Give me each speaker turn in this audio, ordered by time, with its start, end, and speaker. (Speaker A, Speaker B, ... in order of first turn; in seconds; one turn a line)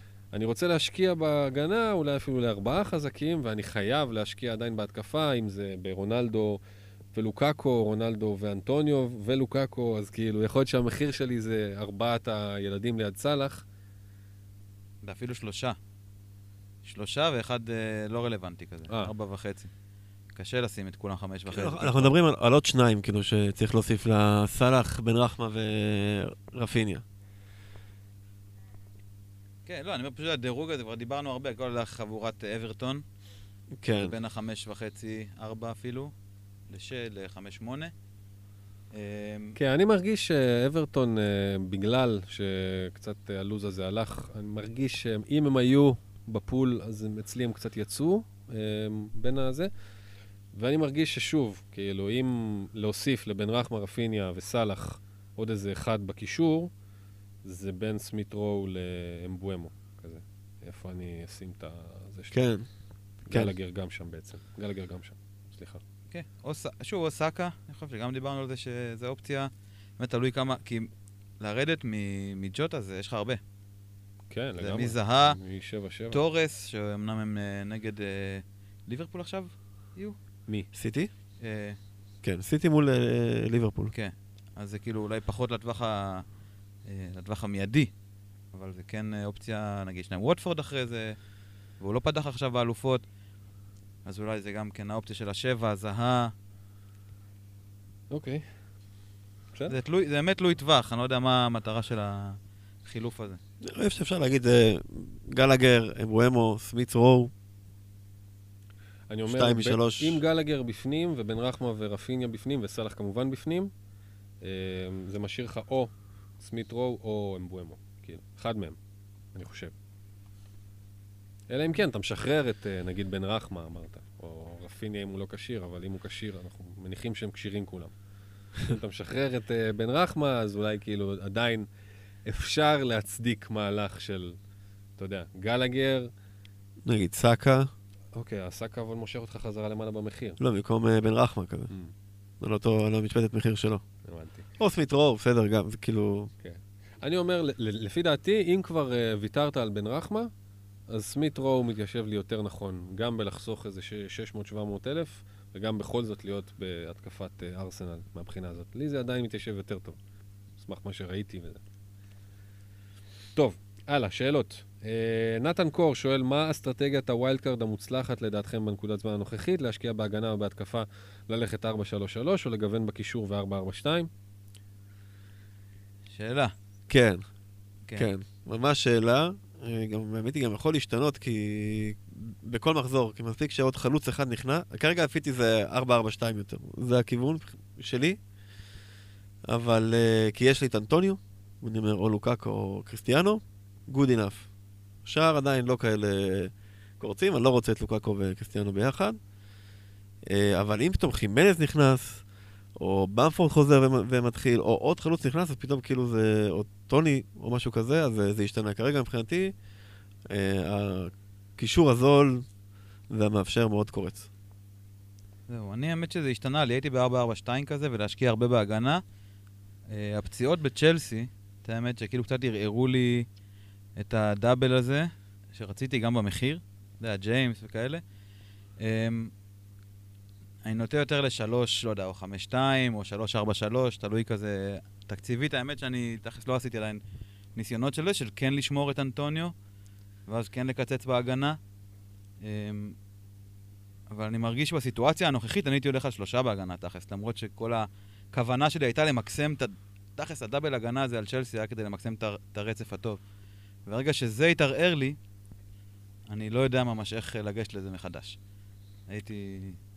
Speaker A: 0.3-6.6
Speaker A: 7.1-13.6
Speaker B: 15.0-15.8
Speaker B: 16.8-19.7
Speaker B: 20.3-22.1
Speaker C: 21.5-27.0
Speaker B: 29.6-33.0
Speaker C: 33.7-34.1
Speaker B: 34.0-36.1
Speaker B: 36.7-37.9
Speaker B: 38.9-39.5
Speaker A: 39.5-49.7
Speaker A: 50.5-56.7
Speaker A: 57.4-62.4
Speaker C: 62.3-62.6
Speaker A: 63.3-65.8
Speaker B: 66.1-73.4
Speaker A: 74.3-76.2
Speaker B: 74.6-75.4
Speaker B: 76.1-80.2
Speaker C: 80.7-81.1
Speaker B: 81.4-81.8
Speaker C: 82.2-83.9
Speaker B: 83.9-86.2
Speaker B: 86.8-87.9
Speaker B: 88.5-91.2
Speaker B: 91.8-93.0
Speaker B: 94.0-96.3
Speaker A: 98.1-98.5
Speaker B: 99.7-103.4
Speaker C: 103.6-107.3
Speaker A: 109.1-113.7
Speaker C: 109.3-110.2
Speaker A: 114.4-118.8
Speaker A: 119.3-119.7
Speaker A: 121.5-127.9
Speaker A: 128.6-131.7
Speaker A: 132.2-134.4
Speaker A: 135.0-136.1
Speaker C: 136.8-137.7
Speaker A: 138.1-140.4
Speaker C: 140.4-141.7
Speaker C: 142.4-143.8
Speaker A: 144.0-144.5
Speaker C: 144.6-146.3
Speaker A: 146.4-150.3
Speaker A: 150.9-160.0
Speaker A: 160.6-161.6
Speaker A: 163.3-174.1
Speaker B: 176.1-176.5
Speaker C: 176.9-177.2
Speaker C: 177.9-188.2
Speaker C: 189.5-194.5
Speaker C: 195.0-199.2
Speaker C: 200.3-202.2
Speaker C: 202.8-209.5
Speaker C: 210.3-212.5
Speaker C: 213.1-214.3
Speaker B: 215.5-219.0
Speaker B: 219.9-223.3
Speaker B: 224.0-228.0
Speaker B: 228.8-229.3
Speaker B: 230.6-237.0
Speaker B: 237.5-239.5
Speaker B: 240.3-241.6
Speaker B: 242.4-242.9
Speaker B: 244.1-253.2
Speaker B: 253.8-255.2
Speaker B: 256.3-258.4
Speaker B: 259.1-259.8